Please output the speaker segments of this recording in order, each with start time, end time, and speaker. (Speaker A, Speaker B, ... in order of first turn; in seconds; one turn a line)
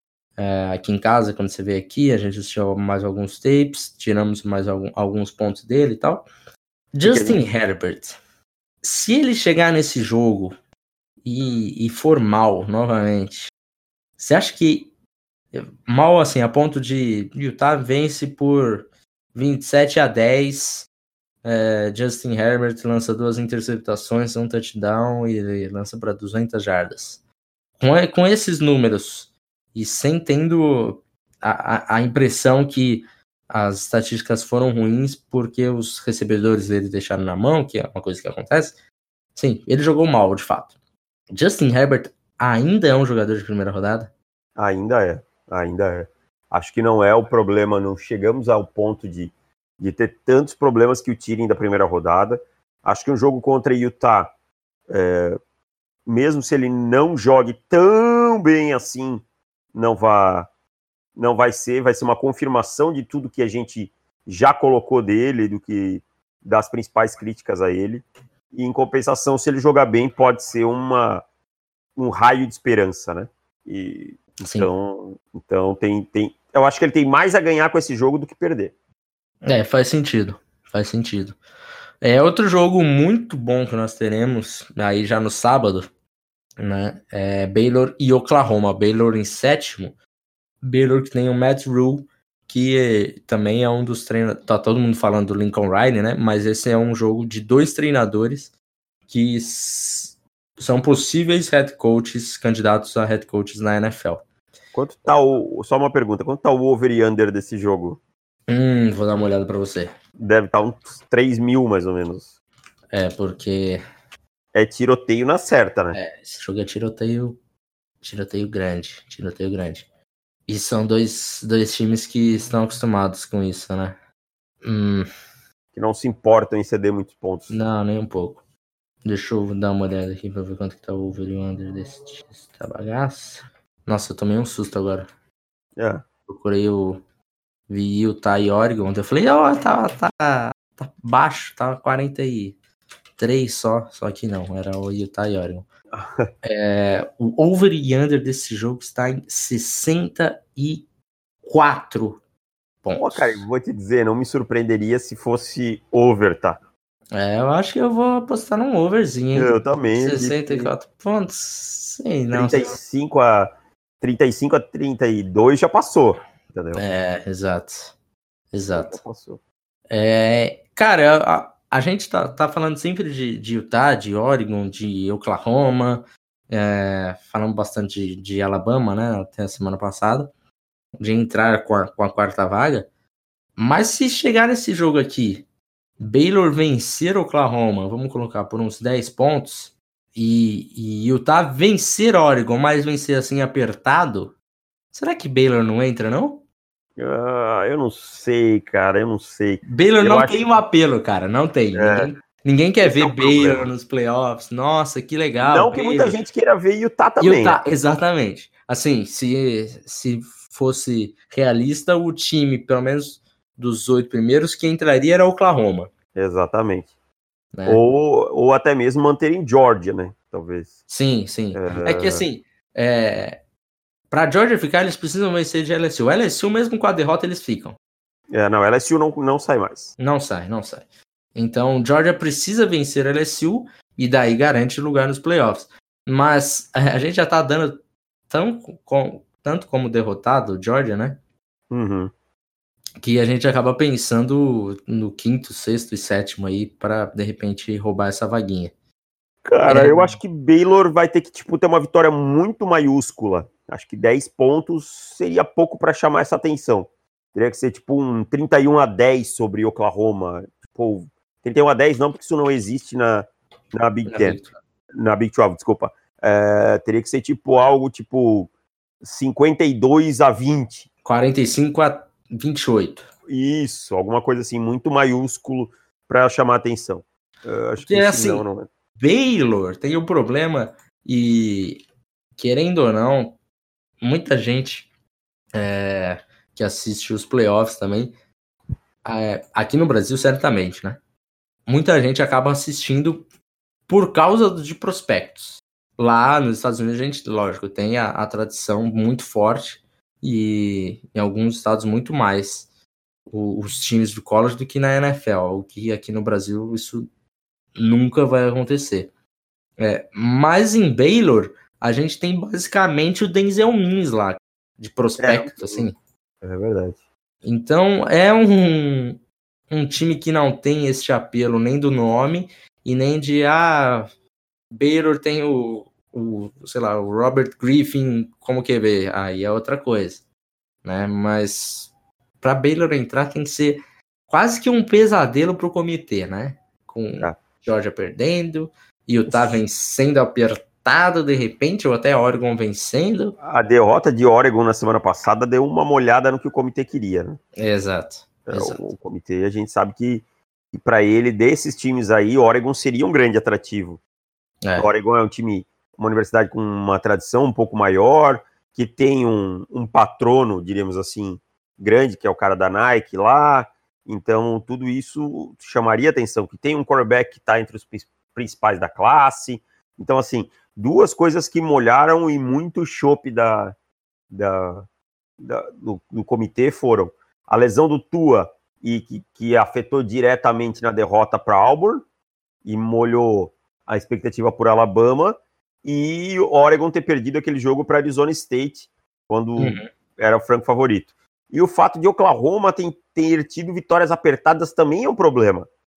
Speaker A: 0.4-6.3
Speaker A: 6.9-8.2
Speaker B: 7.0-7.4
Speaker A: 8.8-10.6
Speaker A: 11.2-13.5
Speaker A: 14.2-14.9
Speaker A: 15.5-20.9
Speaker A: 21.4-27.2
Speaker A: 27.8-38.8
Speaker A: 39.4-40.7
Speaker A: 41.3-44.1
Speaker B: 44.6-54.3
Speaker B: 54.9-55.4
Speaker B: 56.1-59.2
Speaker B: 59.7-60.5
Speaker B: 61.2-71.2
Speaker B: 72.0-78.7
Speaker A: 74.4-74.7
Speaker A: 79.4-81.4
Speaker A: 82.0-85.9
Speaker A: 86.6-90.0
Speaker A: 90.6-98.5
Speaker A: 99.1-104.2
Speaker B: 104.7-108.0
Speaker A: 108.5-109.9
Speaker B: 110.2-112.3
Speaker A: 112.9-113.8
Speaker B: 114.5-116.0
Speaker A: 115.9-117.4
Speaker A: 118.0-119.9
Speaker A: 120.5-124.0
Speaker A: 124.6-125.1
Speaker B: 125.7-127.6
Speaker A: 127.5-128.4
Speaker A: 129.0-135.1
Speaker B: 135.8-136.0
Speaker A: 136.3-137.0
Speaker A: 137.7-142.6
Speaker A: 143.2-145.7
Speaker B: 145.9-146.3
Speaker A: 146.4-150.9
Speaker A: 151.4-152.2
Speaker A: 152.8-153.5
Speaker B: 153.0-156.6
Speaker A: 157.1-162.8
Speaker B: 159.3-160.7
Speaker B: 162.3-166.8
Speaker A: 166.8-167.9
Speaker A: 168.5-169.0
Speaker B: 168.7-169.4
Speaker A: 169.9-180.3
Speaker A: 181.0-182.9
Speaker A: 183.6-185.4
Speaker A: 186.0-194.3
Speaker A: 194.9-196.4
Speaker B: 197.0-200.4
Speaker A: 199.7-206.2
Speaker B: 201.8-202.1
Speaker B: 202.8-203.7
Speaker B: 205.4-207.6
Speaker A: 207.2-215.9
Speaker B: 216.2-216.9
Speaker A: 217.5-217.8
Speaker B: 217.7-220.8
Speaker A: 220.9-223.4
Speaker B: 221.5-222.2
Speaker A: 224.1-227.8
Speaker B: 228.3-229.9
Speaker A: 230.0-241.2
Speaker B: 241.7-242.1
Speaker A: 243.0-248.7
Speaker B: 249.4-264.4
Speaker A: 249.7-250.2
Speaker A: 264.1-264.6
Speaker B: 264.9-268.5
Speaker B: 269.0-270.9
Speaker A: 271.1-273.1
Speaker B: 273.3-278.7
Speaker A: 277.8-278.5
Speaker A: 279.0-281.8
Speaker A: 282.4-283.4
Speaker A: 284.0-284.9
Speaker A: 285.6-288.1
Speaker A: 289.0-291.0
Speaker A: 291.7-293.2
Speaker A: 293.9-302.7
Speaker A: 303.3-307.1
Speaker A: 307.8-309.1
Speaker A: 309.8-316.0
Speaker B: 315.2-315.9
Speaker B: 316.4-317.0
Speaker A: 317.4-319.2
Speaker A: 319.7-324.1
Speaker A: 324.7-330.2
Speaker A: 330.8-343.4
Speaker B: 339.3-339.6
Speaker B: 343.4-347.4
Speaker A: 347.6-348.9
Speaker B: 348.5-354.0
Speaker A: 354.6-354.9
Speaker B: 354.8-373.8
Speaker B: 374.3-374.9
Speaker B: 375.4-382.1
Speaker B: 382.6-395.7
Speaker A: 389.6-389.9